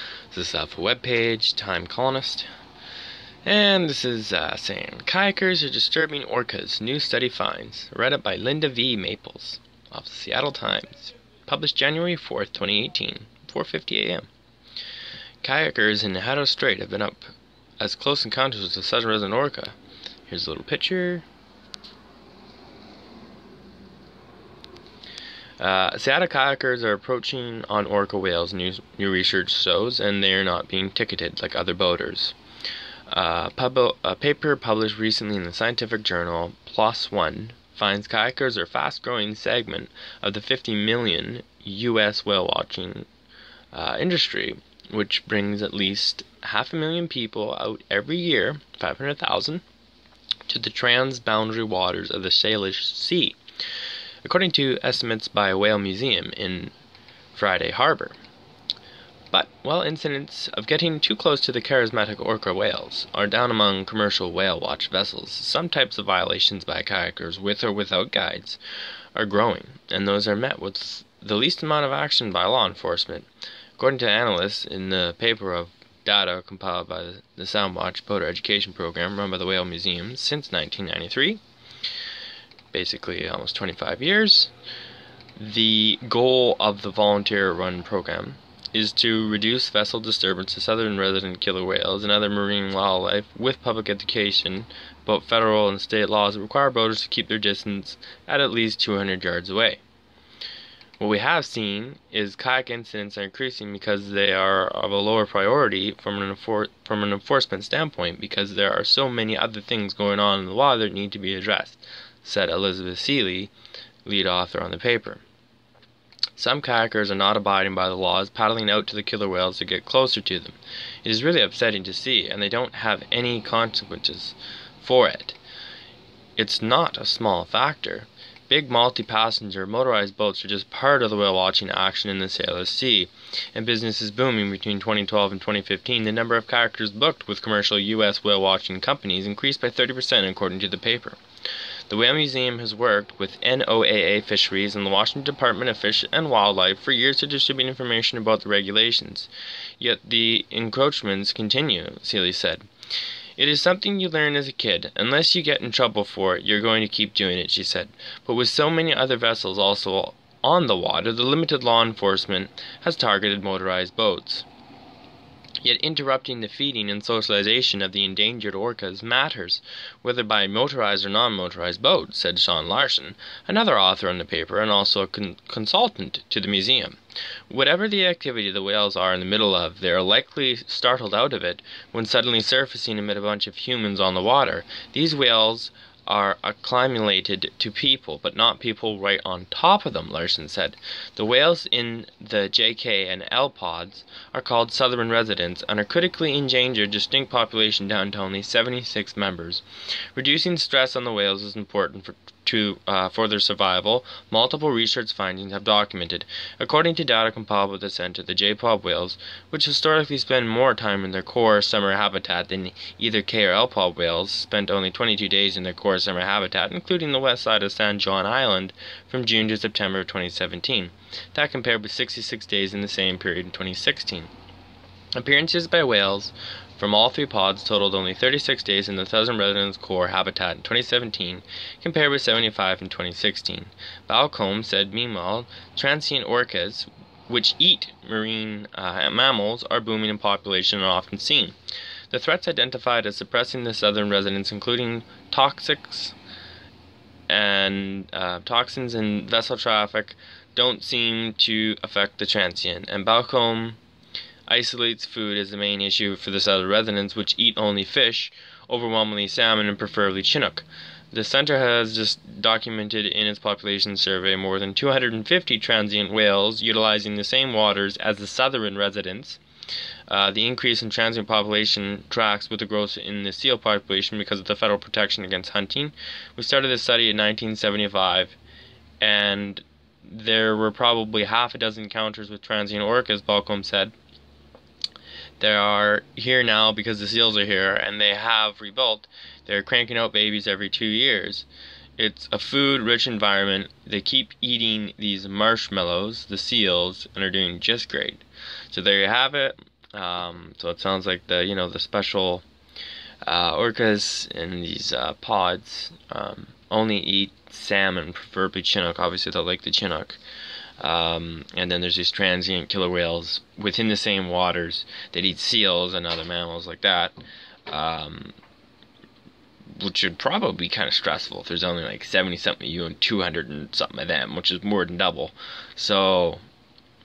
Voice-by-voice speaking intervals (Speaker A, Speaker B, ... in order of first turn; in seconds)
Speaker A: 0.3-2.5, 3.4-14.3, 15.4-19.7, 20.3-21.2, 25.6-32.3, 33.1-43.1, 43.7-49.6, 50.5-53.4, 54.2-56.7, 57.3-58.1, 59.3-68.6, 69.1-81.4, 82.7-84.5, 85.4-99.8, 101.0-113.5, 114.0-115.2, 116.3-125.4, 126.4-141.2, 141.9-152.7, 153.4-164.4, 165.6-177.0, 177.5-199.6, 200.1-224.3, 225.1-241.6, 242.1-246.2, 247.3-253.8, 254.5-269.4, 270.1-278.4, 279.0-283.9, 285.4-291.5, 292.0-302.4, 303.2-310.2, 310.8-317.1, 317.7-318.4, 319.7-326.4